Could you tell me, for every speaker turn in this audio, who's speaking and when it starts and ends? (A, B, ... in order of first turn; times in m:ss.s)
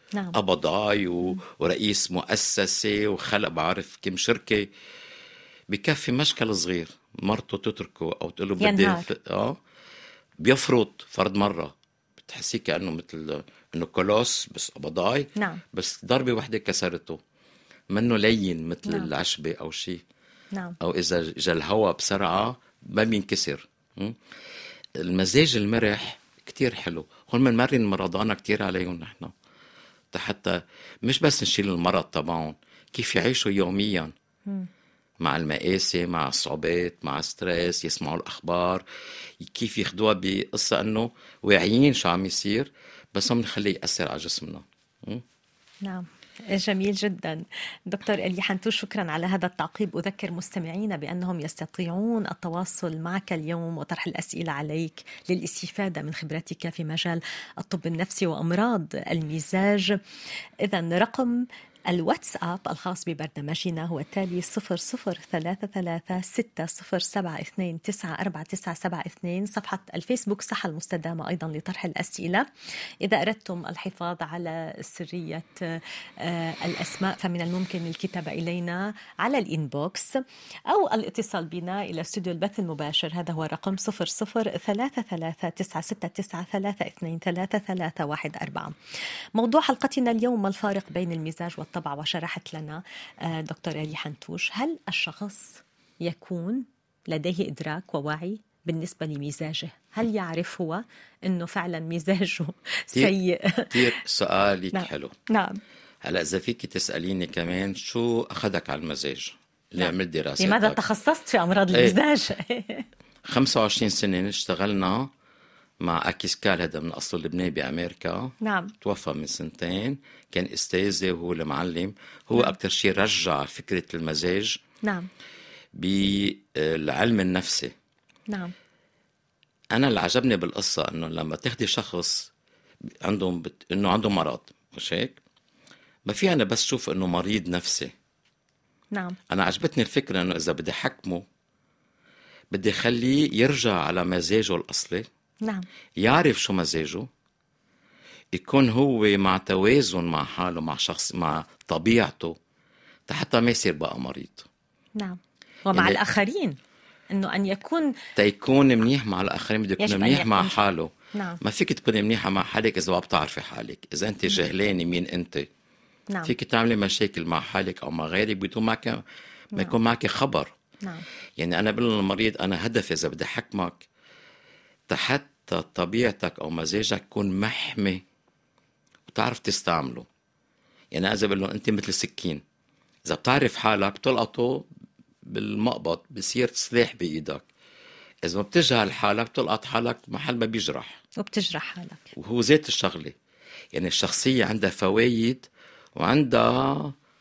0:00.3-0:04.7 A
0:05.7-0:09.6 A
0:08.6-0:09.1 B
0:10.4-0:17.2 A
0:15.4-0:15.6 B
0:17.9-0:20.0 A
0:20.8-0:24.2 A
0:25.0-0:29.3 A
0:30.1-0:34.1 A
0:35.2-0:38.8 A
0:39.4-0:45.2 A
0:45.8-1:00.0 B
1:00.6-1:12.5 B
1:13.0-1:28.7 B
1:29.4-1:43.9 B
1:43.7-1:45.1 A
1:44.7-1:45.6 B
1:46.0-1:50.8 A
1:49.8-1:52.9 B
1:51.7-1:52.0 A
1:53.3-1:55.1 A
1:55.8-2:04.6 A
1:58.4-1:58.7 B
2:04.8-2:05.1 B
2:05.7-2:07.7 A
2:09.7-2:12.3 A
2:13.0-2:15.2 A
2:16.1-2:17.9 A
2:19.3-2:21.2 A
2:22.5-2:25.1 A
2:26.0-2:27.1 A
2:28.3-2:32.4 A
2:33.1-2:34.5 A
2:35.0-2:36.6 B
2:35.7-2:36.0 A
2:37.1-2:38.0 B
2:38.2-2:45.5 A
2:39.8-2:40.6 B
2:41.1-2:41.4 B
2:46.2-2:49.0 A
2:49.6-2:50.5 A
2:51.4-2:53.9 A
2:54.9-2:58.0 A
2:59.1-3:00.1 A
3:00.9-3:02.4 A
3:03.1-3:04.7 A
3:05.2-3:07.5 A
3:08.2-3:11.0 A
3:11.2-3:12.1 B
3:12.2-3:13.2 A
3:13.7-3:17.0 A